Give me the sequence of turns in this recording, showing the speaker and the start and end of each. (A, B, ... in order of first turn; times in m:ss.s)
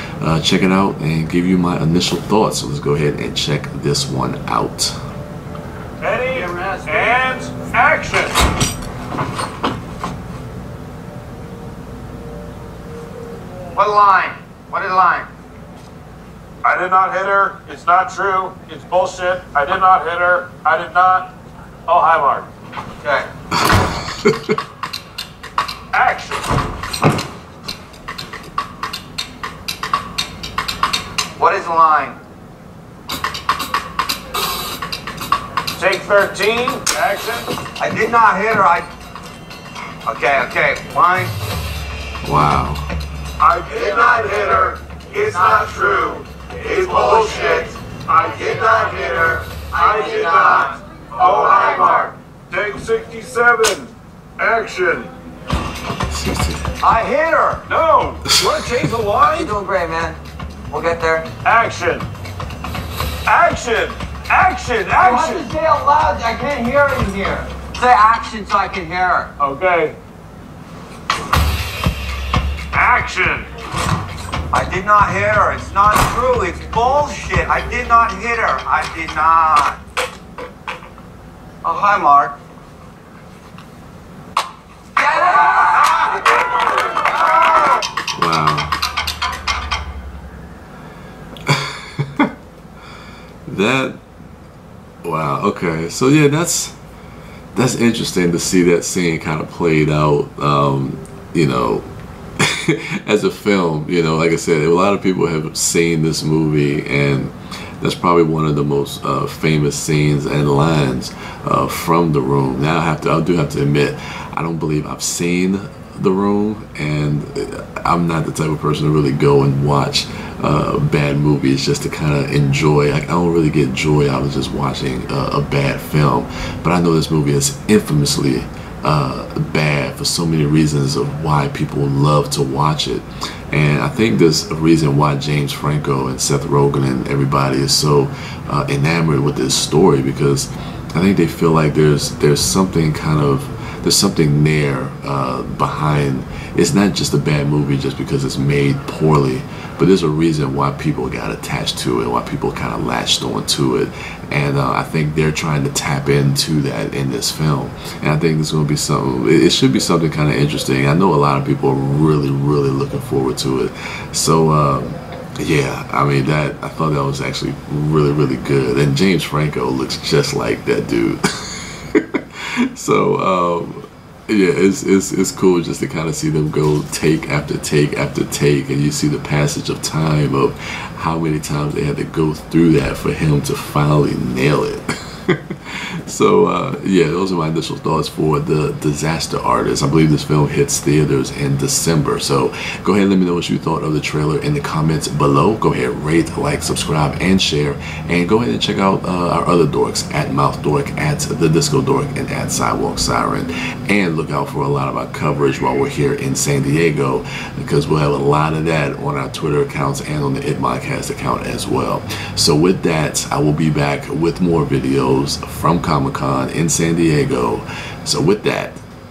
0:00.2-0:05.0 A
0:06.0-0:08.4 B
0:13.7-0:15.3 C
0:16.6-0:21.3 B
0:21.9-0:22.5 B
0:23.0-0:23.3 C
0:25.9-0:26.5 B
0:31.4-0:32.2 C
0:35.7-0:37.5 B
0:37.8-0:38.9 C
0:40.0-0:41.3 C
0:42.2-0:42.9 A
0:43.4-0:55.1 B
0:43.7-0:44.6 C
0:45.1-0:46.1 C
0:46.6-0:47.7 C
0:48.3-0:50.8 C
0:51.4-0:51.9 C
0:56.1-0:56.7 A
0:56.8-0:57.6 C
0:57.7-0:59.5 B
0:59.2-1:01.3 C
1:01.4-1:02.0 B
1:03.2-1:05.5 B
1:05.0-1:09.3 C
1:09.4-1:10.0 B
1:12.7-1:13.5 B
1:14.5-1:19.8 C
1:21.6-1:22.4 C
1:25.1-1:26.1 C
1:28.1-1:28.8 A
1:31.4-1:32.3 A
1:33.4-1:34.0 A
1:35.0-1:36.8 A
1:37.5-1:41.9 A
1:42.4-3:38.8 A